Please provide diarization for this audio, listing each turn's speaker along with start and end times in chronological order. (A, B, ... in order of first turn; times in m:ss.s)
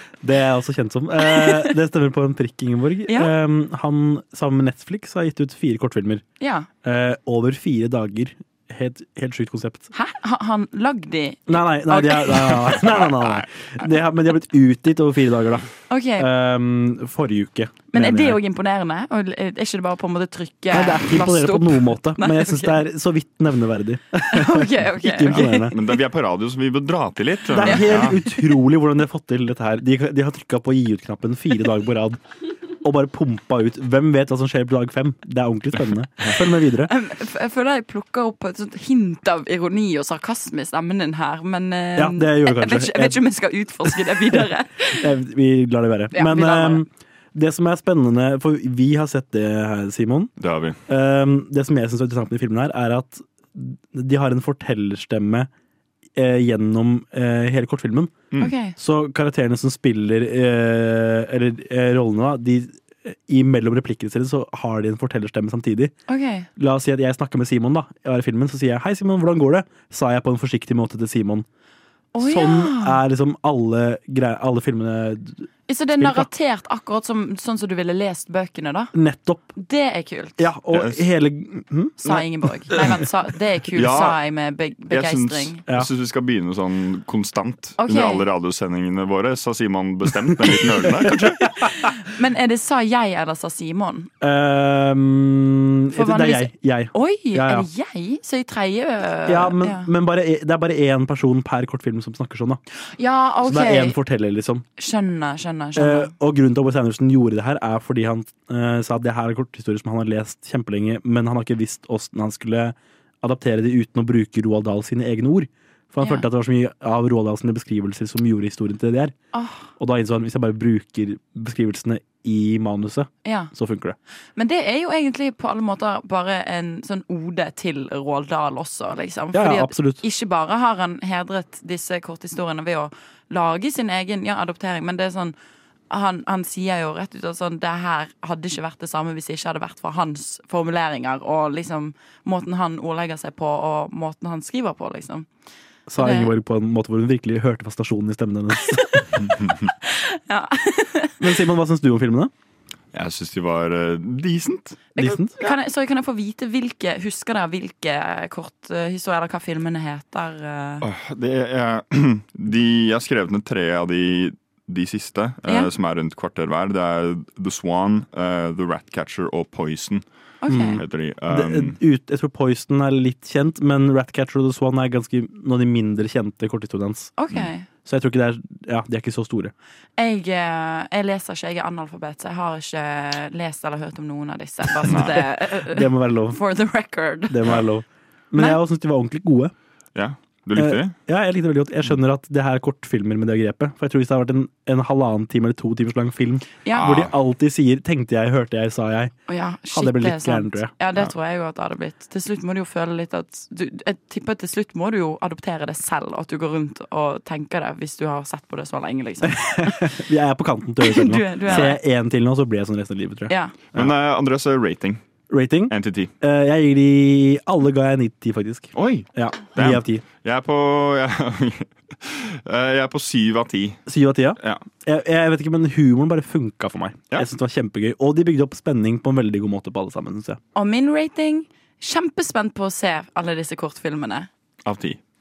0:00.2-0:06.2 A
0:01.2-0:01.7 B
0:03.1-0:03.3 B
0:06.4-0:06.7 B
0:06.8-0:09.9 A
0:09.9-0:12.8 B
0:11.5-0:18.4 A
0:12.8-0:13.4 C
0:15.9-0:16.3 B
0:17.9-0:22.8 B
0:20.7-0:25.8 A
0:24.3-0:25.9 B
0:25.3-0:28.2 C
0:27.5-0:32.2 A
0:27.6-0:28.0 B
0:32.8-0:36.9 A
0:36.8-0:45.0 B
0:42.0-0:43.2 A
0:43.8-0:50.3 A
0:46.1-0:46.8 B
0:50.4-0:50.8 C
0:50.9-0:55.5 A
0:56.1-0:58.2 A
0:58.4-0:58.8 B
0:58.8-1:05.9 A
1:06.1-1:06.5 B
1:06.6-1:11.4 A
1:12.1-1:13.0 B
1:12.2-1:16.3 A
1:15.7-1:18.9 B
1:18.9-1:19.5 A
1:19.6-1:20.5 B
1:20.4-1:22.9 A
1:20.7-1:21.0 C
1:22.0-1:25.6 B
1:23.7-1:24.2 C
1:24.9-1:31.4 C
1:27.8-1:28.2 B
1:30.5-1:31.4 A
1:31.6-1:34.1 B
1:34.2-1:37.7 A
1:35.9-1:39.9 B
1:39.2-1:42.6 A
1:43.0-1:44.0 B
1:43.4-1:44.6 A
1:44.8-1:46.1 B
1:45.8-1:59.1 A
1:56.0-1:56.2 B
1:59.3-1:59.7 B
1:59.8-2:04.0 A
2:03.2-2:03.5 B
2:04.4-2:15.3 B
2:09.3-2:10.0 A
2:15.9-2:25.3 B
2:25.9-2:29.2 A
2:26.0-2:26.3 B
2:29.8-2:31.2 B
2:31.2-2:32.3 A
2:32.9-2:34.8 C
2:35.0-2:40.8 B
2:35.0-2:35.3 A
2:40.8-2:51.8 C
2:50.4-2:50.8 B
2:50.5-2:57.1 A
2:57.2-2:57.7 B
2:57.8-2:59.5 A
3:00.0-3:07.4 B
3:04.8-3:05.2 C
3:04.9-3:06.4 A
3:07.3-3:09.5 A
3:09.9-3:10.9 C
3:10.6-3:19.1 A
3:16.8-3:17.1 C
3:19.3-3:29.9 B
3:19.7-3:20.7 A
3:29.2-3:33.9 A
3:30.8-3:31.8 B
3:33.3-3:33.5 B
3:33.7-3:35.0 C
3:35.3-3:40.0 A
3:35.7-3:36.1 C
3:38.7-3:43.8 C
3:43.9-3:50.4 A
3:50.5-3:54.3 B
3:54.6-3:55.0 C